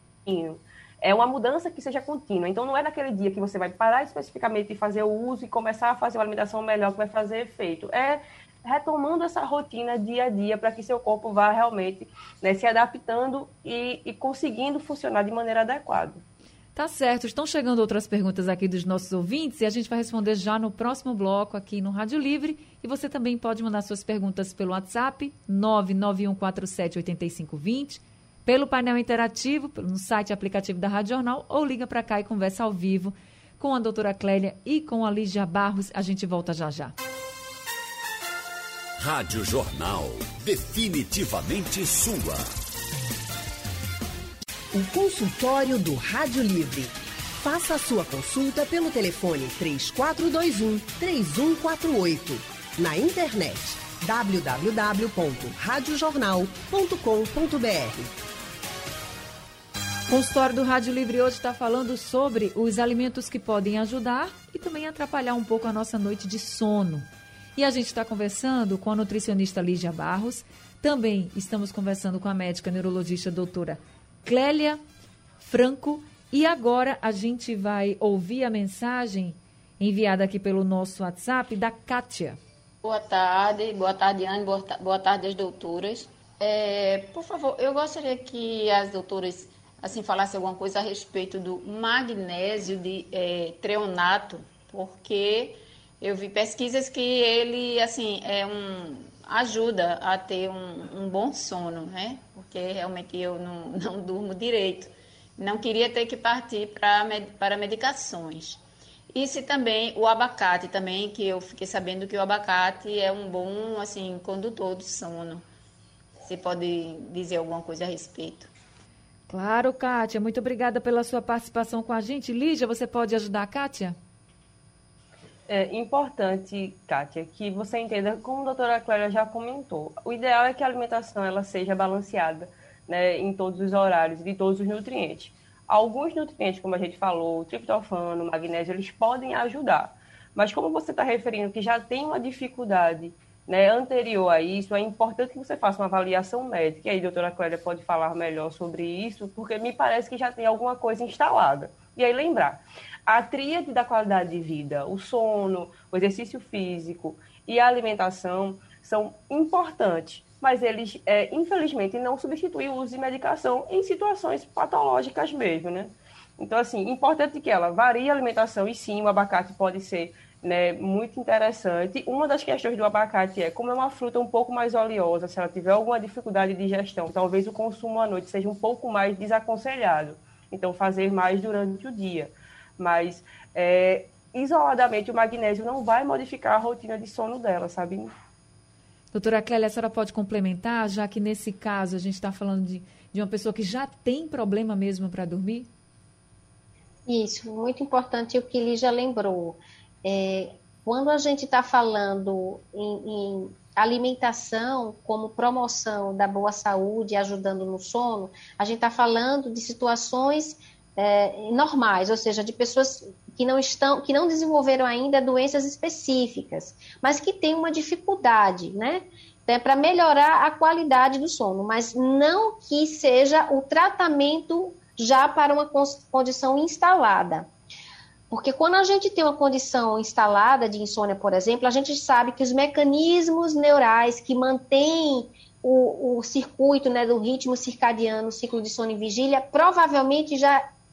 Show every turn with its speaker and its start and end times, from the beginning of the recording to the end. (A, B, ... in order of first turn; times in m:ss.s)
0:00.2-0:16.2 A
0:16.8-0:36.9 B
0:39.0-0:42.5 C
0:44.7-0:58.1 D
1:00.1-1:14.8 B
1:15.4-1:22.4 B
1:22.8-1:55.5 E
1:56.2-1:58.5 E
1:59.3-2:04.0 B
2:05.5-3:08.1 A
3:09.1-3:15.7 B
3:17.1-3:47.5 F
3:48.3-4:00.6 F